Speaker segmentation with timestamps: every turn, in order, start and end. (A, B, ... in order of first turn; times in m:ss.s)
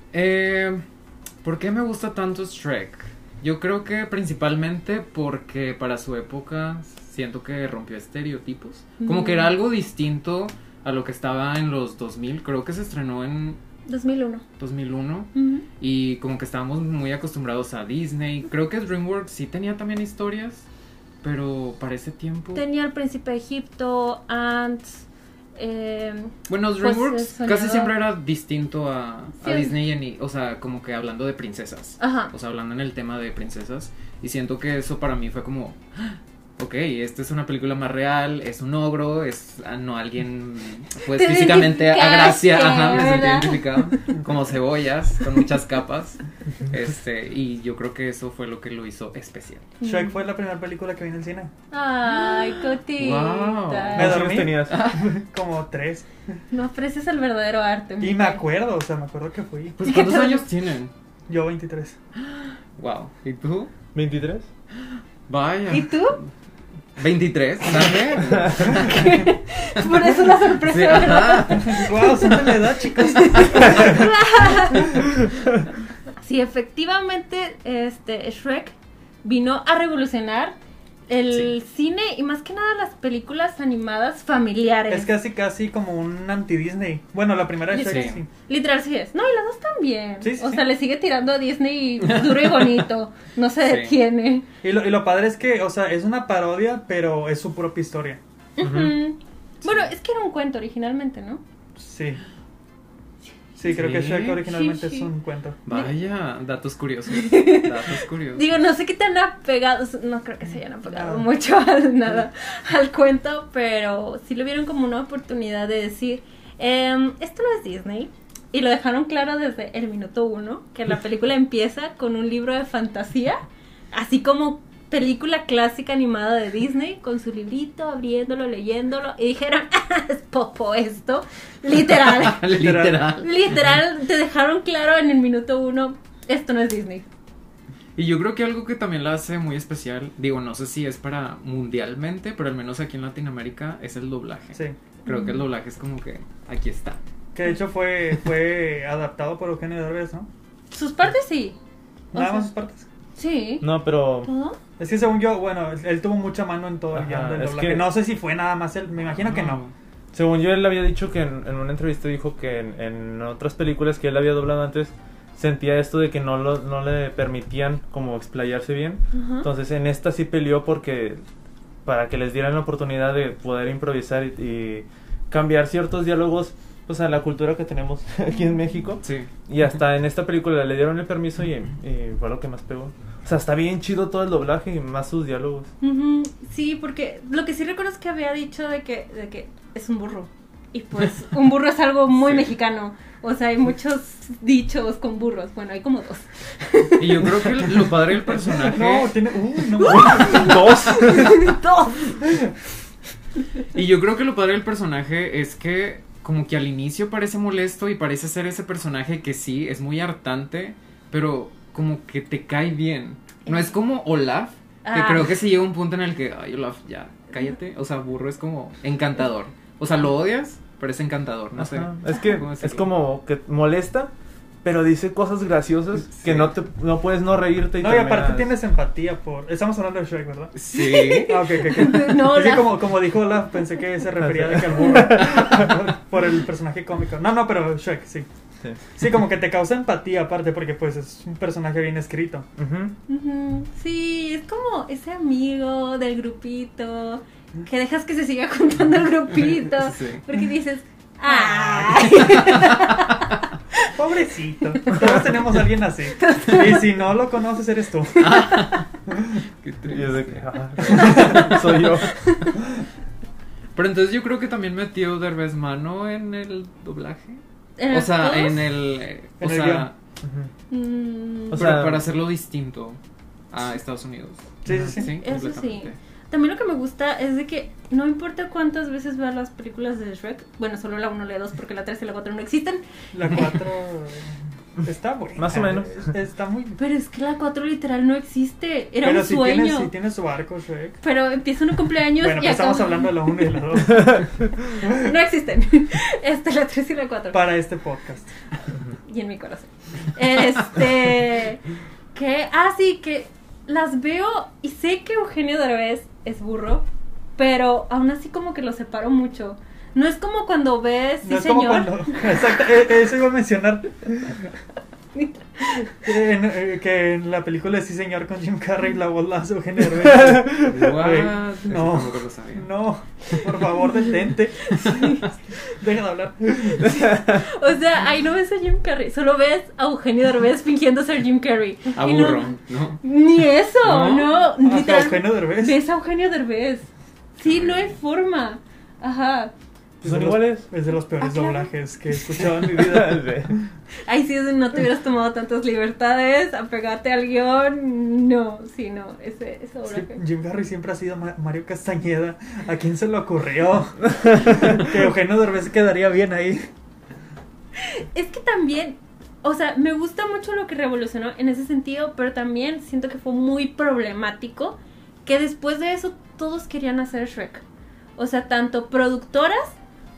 0:00.1-0:00.8 A
0:01.4-0:13.6 A
0:09.0-0:09.5 B
0:13.9-0:14.4 B
0:14.6-0:20.6 A
0:15.3-0:15.7 B
0:21.2-0:22.6 A
0:22.6-0:25.0 B
0:25.6-0:27.9 B
0:26.5-0:49.7 A
0:29.4-0:29.7 B
0:32.0-0:32.3 B
0:41.1-0:44.0 B
0:49.8-0:50.1 B
0:49.8-0:51.5 C
0:51.7-0:54.0 B
0:53.0-0:55.2 A
0:53.9-0:54.8 D
0:54.0-0:56.1 C
0:56.5-0:58.4 B
0:58.0-0:59.8 C
0:59.8-1:00.9 A
0:59.8-1:00.4 B
1:01.3-1:02.0 C
1:02.2-1:03.7 A
1:03.9-1:04.5 D
1:04.8-1:06.1 A
1:05.7-1:06.2 B
1:07.0-1:09.0 A
1:08.5-1:14.9 B
1:10.7-1:11.9 A
1:11.5-1:14.1 C
1:16.2-1:20.6 B
1:21.1-1:25.1 B
1:24.9-1:28.3 C
1:27.7-1:34.5 B
1:27.8-1:28.2 A
1:30.2-1:30.6 C
1:32.1-1:32.8 A
1:33.7-1:34.0 A
1:34.6-1:38.2 C
1:38.6-1:41.4 B
1:38.6-1:39.0 D
1:41.8-1:42.2 C
1:43.6-1:45.6 C
1:43.6-1:44.5 A
1:44.4-1:45.1 B
1:45.7-1:48.5 A
1:47.1-2:17.1 B
1:50.9-1:51.3 C
2:12.0-2:13.3 A
2:12.5-2:13.1 C
2:18.0-2:27.0 A
2:25.1-2:25.4 B
2:27.3-2:30.3 C
2:30.7-2:31.6 B
2:32.1-2:32.9 C
2:32.1-2:32.5 B
2:33.2-2:33.7 B
2:33.6-2:34.3 D
2:34.2-2:34.6 B
2:34.8-2:39.6 C
2:36.9-2:37.9 D
2:39.1-2:39.7 A
2:40.1-2:51.2 D
2:49.1-2:49.5 B
2:51.8-3:05.7 D
2:59.0-2:59.3 A
3:05.8-3:17.6 B
3:12.2-3:12.4 A
3:17.0-3:19.2 A
3:18.6-3:20.6 C
3:19.8-3:22.2 B
3:19.8-3:21.5 D
3:23.7-3:42.9 A
3:33.5-3:33.7 B
3:34.8-3:35.3 B
3:41.6-3:44.1 D
3:44.6-3:48.5 D
3:46.2-3:46.5 A
3:47.8-3:50.6 C
3:50.6-3:51.5 A
3:50.7-3:53.0 B
3:51.1-3:58.3 C
3:54.2-3:55.8 D
3:59.0-4:02.5 C
4:02.6-4:03.0 D
4:03.1-4:13.3 B
4:09.7-4:10.2 A
4:11.3-4:12.4 C
4:13.9-4:18.6 C
4:16.2-4:16.8 B
4:18.2-4:18.9 A
4:19.1-4:19.4 C
4:19.6-4:20.2 A
4:19.9-4:22.7 D
4:20.8-4:21.5 C
4:21.0-4:21.5 B
4:23.8-4:29.9 A
4:27.8-4:28.7 B
4:29.4-4:29.9 C
4:30.2-4:30.5 D
4:30.7-4:31.7 B
4:31.5-4:32.1 D
4:31.5-4:33.0 A
4:33.5-4:36.0 A
4:34.6-4:35.1 C
4:34.9-4:42.8 B
4:43.1-4:44.3 C
4:44.8-4:46.8 C
4:45.4-4:46.1 D
4:46.8-4:49.9 B
4:49.0-4:51.0 C
4:51.0-4:53.4 B
4:52.2-4:54.4 C
4:54.8-4:57.5 B
4:57.3-4:58.3 C
4:59.0-5:01.6 B
5:02.1-5:06.9 B
5:07.4-5:12.3 B
5:11.2-5:14.5 C
5:15.2-5:16.0 B
5:16.0-5:27.0 C
5:20.0-5:20.7 D
5:20.6-5:22.7 A
5:24.7-5:25.2 B
5:26.9-5:27.4 D
5:27.1-5:32.5 B
5:32.0-5:33.0 A
5:33.0-5:39.5 B
5:33.8-5:34.3 A
5:34.6-5:35.8 C
5:37.6-5:37.8 A
5:40.0-5:43.6 C
5:40.0-5:40.7 D
5:41.2-5:41.7 B
5:42.6-5:43.6 D
5:44.1-5:50.2 B
5:49.9-5:56.7 C
5:57.8-6:07.6 B
6:08.2-6:09.8 B